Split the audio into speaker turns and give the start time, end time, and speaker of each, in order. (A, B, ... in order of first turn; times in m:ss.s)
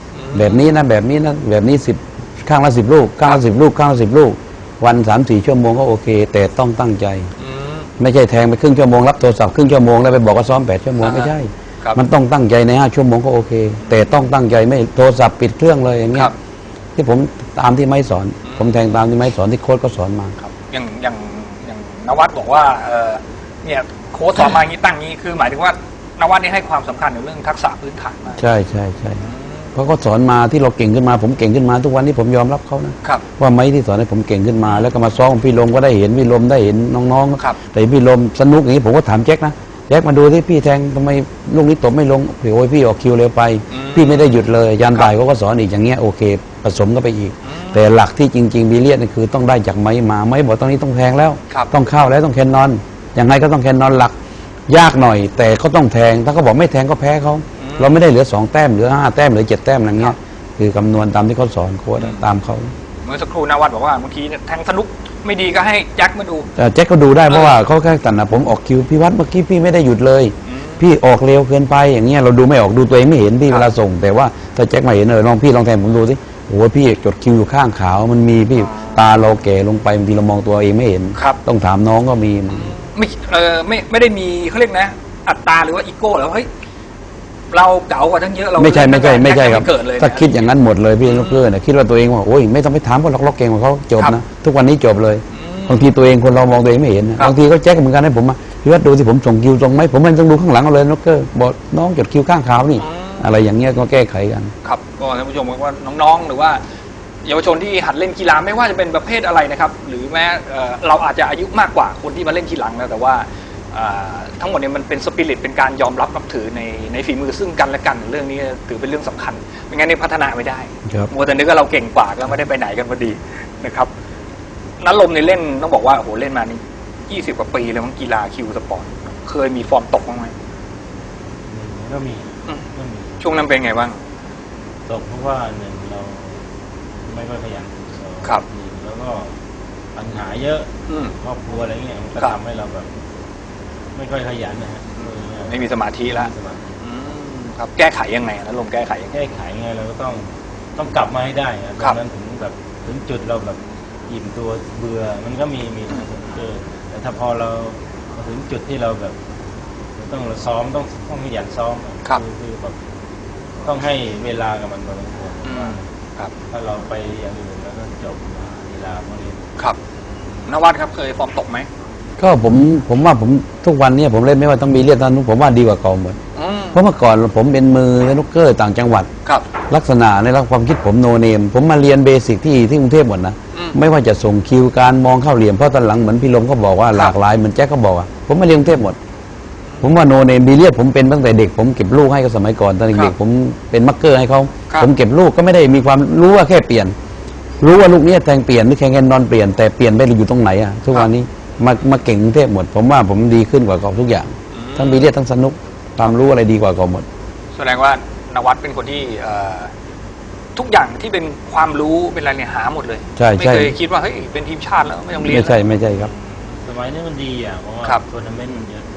0:00.1-0:00.6 A
0:00.3-0:07.3 B
0:07.4-0:07.9 A
0:08.0-0:16.3 B
0:11.0-0:11.3 A
0:17.0-0:20.4 B
0:18.4-0:18.8 A
0:20.4-0:28.4 A
0:28.4-0:29.2 B
0:29.2-0:29.7 A
0:29.8-0:54.2 B
0:43.7-0:44.4 A
0:47.4-0:47.8 A
0:54.7-1:02.7 B
0:57.6-0:58.0 A
1:02.0-1:02.3 A
1:03.0-1:06.5 A
1:06.6-1:22.8 B
1:07.3-1:07.6 A
1:10.5-1:10.8 A
1:18.6-1:19.0 A
1:22.5-1:26.5 A
1:27.5-1:31.4 A
1:28.6-1:44.5 B
1:35.3-1:35.9 A
1:42.8-1:43.3 A
1:44.6-1:46.6 A
1:47.2-2:03.9 A
2:04.8-2:10.4 A
2:11.5-2:13.2 C
2:13.2-2:14.0 A
2:14.9-2:16.4 C
2:17.0-2:19.4 C
2:20.0-2:23.0 C
2:20.9-2:21.1 A
2:23.9-2:26.7 C
2:25.4-2:29.2 A
2:29.1-2:39.2 C
2:40.0-2:42.8 C
2:43.6-2:45.9 C
2:45.4-2:46.3 A
2:46.5-2:49.5 C
2:50.5-2:51.7 A
2:52.2-2:56.2 B
2:56.4-2:56.8 A
2:56.7-2:59.1 B
2:59.7-3:09.0 B
3:09.8-3:16.9 B
3:17.6-3:27.1 B
3:24.5-3:25.1 A
3:27.6-3:29.7 A
3:30.6-3:36.3 A
3:33.2-3:33.8 B
3:35.2-3:36.1 B
3:36.6-3:38.9 C